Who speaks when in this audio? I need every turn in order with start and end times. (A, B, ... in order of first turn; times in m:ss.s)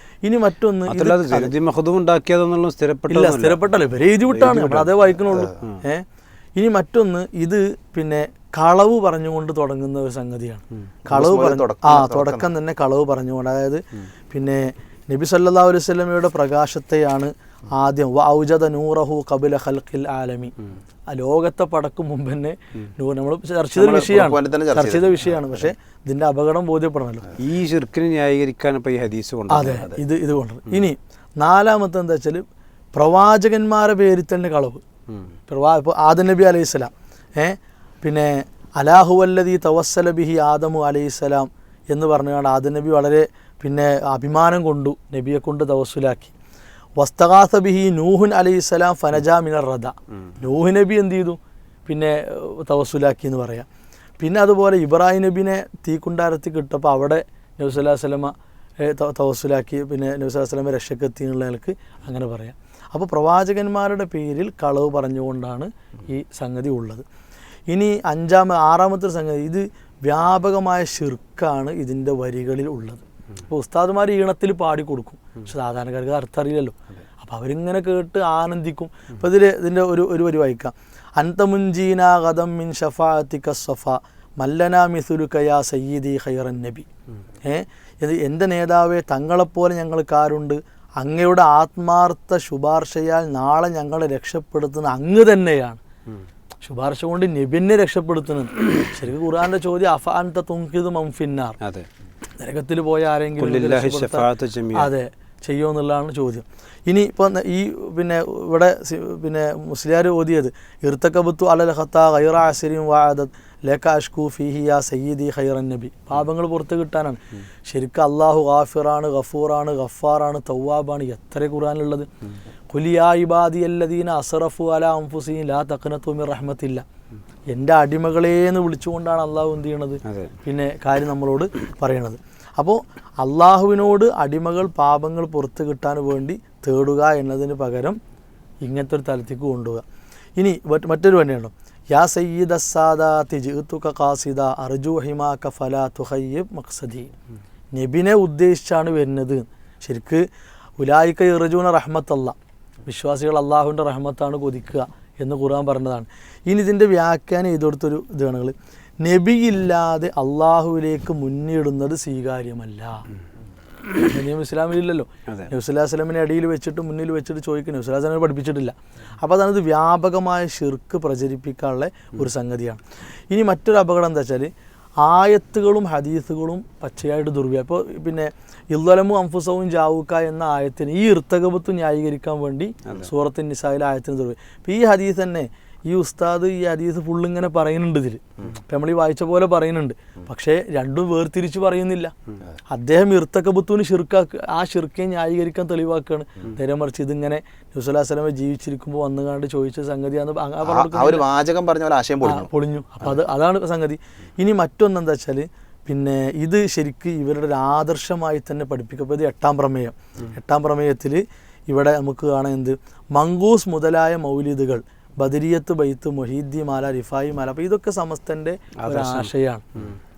0:00.2-0:01.5 A
0:00.9-0:03.6 B
0:03.1-0:06.0 A
0:04.4-0:05.0 B
0:06.6-0:20.5 A
0:11.1-0:12.5 C
0:21.1-0:27.2 A
0:23.7-0:25.7 C
0:27.4-0:29.8 B
0:29.5-0:32.4 A
0:29.6-0:30.0 C
0:32.9-0:34.8 A
0:35.5-0:46.3 A
0:47.0-0:53.7 A
0:54.2-1:07.0 A
1:07.7-1:26.8 A
1:27.4-1:35.8 A
1:36.6-1:41.6 A
1:41.6-1:41.9 B
1:42.4-2:02.1 A
1:43.4-1:44.9 B
2:02.7-2:06.8 A
2:07.5-2:18.0 A
2:18.6-2:19.8 A
2:20.4-2:27.1 A
2:27.7-2:30.2 A
2:30.8-2:32.3 A
2:32.8-2:43.0 A
2:44.0-2:54.5 A
2:55.0-3:12.1 A
3:12.7-3:21.2 A
3:20.6-3:22.5 C
3:22.2-3:39.6 A
3:38.8-3:40.0 B